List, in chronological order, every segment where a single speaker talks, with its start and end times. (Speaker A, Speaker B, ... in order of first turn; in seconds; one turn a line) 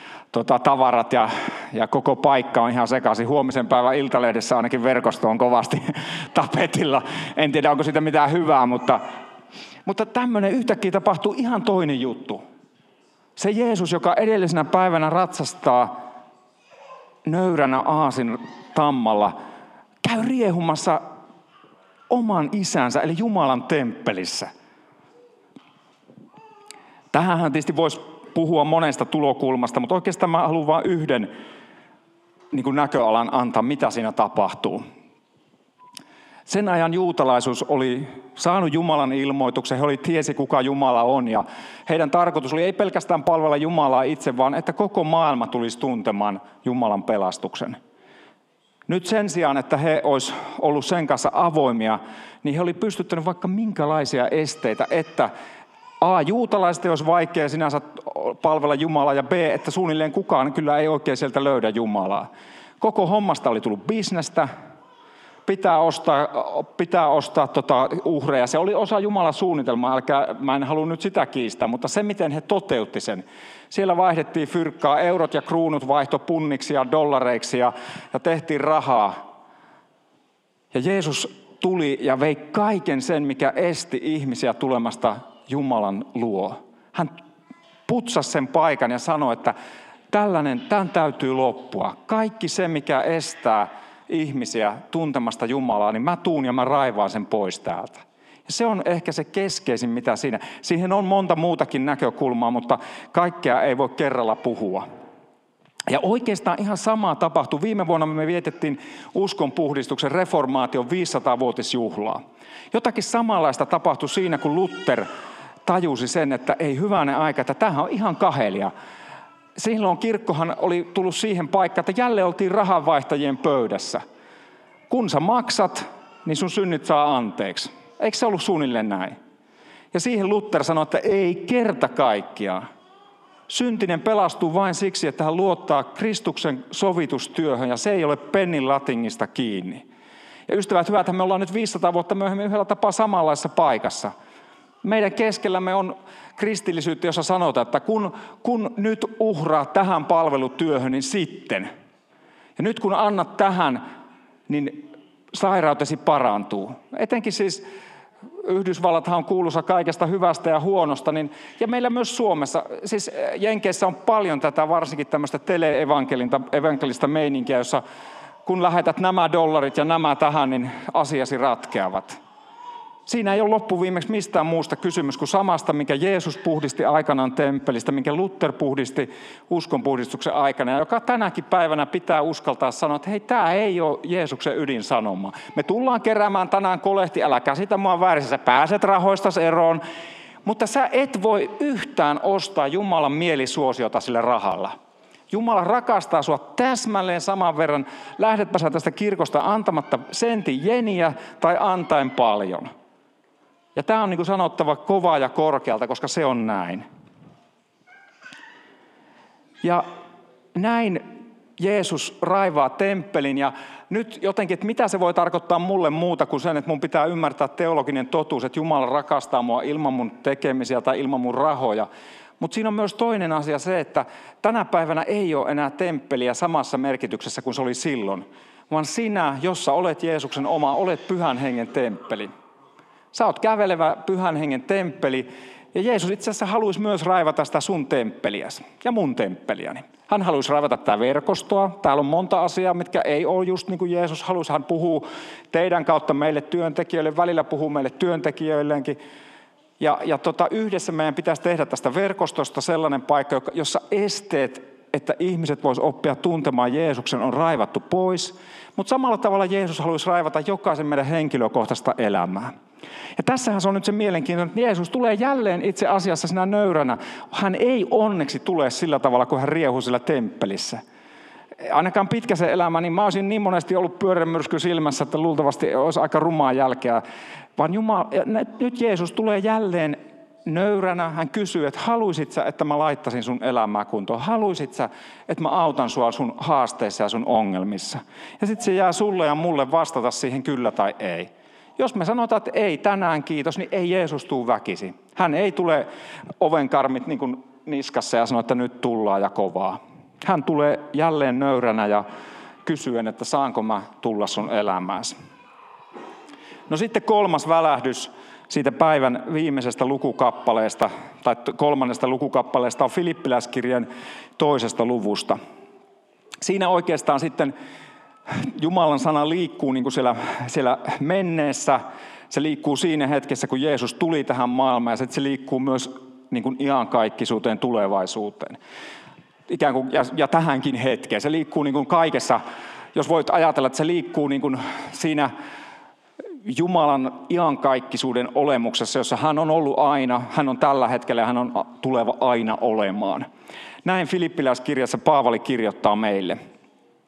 Speaker A: 0.3-9.0
Speaker A: 9.8-12.4
Speaker A: 13.4-16.0
Speaker A: 17.2-19.4
Speaker A: 20.0-21.0
Speaker A: 22.1-24.5
Speaker A: 27.1-31.3
Speaker A: 32.5-34.8
Speaker A: 36.5-47.8
Speaker A: 48.9-55.3
Speaker A: 56.0-62.3
Speaker A: 62.8-64.5
Speaker A: 65.5-79.2
Speaker A: 80.7-87.1
Speaker A: 87.9-89.5
Speaker A: 90.1-104.8
Speaker A: 105.9-112.2
Speaker A: 112.7-115.1
Speaker A: 115.7-118.7
Speaker A: 119.5-124.0
Speaker A: 124.9-129.2
Speaker A: 129.9-132.6
Speaker A: 133.5-139.8
Speaker A: 140.5-144.1
Speaker A: 144.8-151.7
Speaker A: 152.6-153.8
Speaker A: 154.5-157.6
Speaker A: 158.4-167.8
Speaker A: 168.4-172.2
Speaker A: 173.1-189.8
Speaker A: 190.4-194.7
Speaker A: 195.3-202.7
Speaker A: 203.7-206.8
Speaker A: 210.5-221.9
Speaker A: 222.4-232.3
Speaker A: 233.1-249.0
Speaker A: 249.8-262.5
Speaker A: 263.2-270.8
Speaker A: 271.6-277.0
Speaker A: 277.6-295.9
Speaker A: 296.4-302.0
Speaker A: 302.6-305.1
Speaker A: 306.7-315.4
Speaker A: 316.4-317.5
Speaker A: 318.3-328.6
Speaker A: 329.5-332.4
Speaker A: 332.9-335.3
Speaker A: 336.4-343.2
Speaker A: 343.8-346.4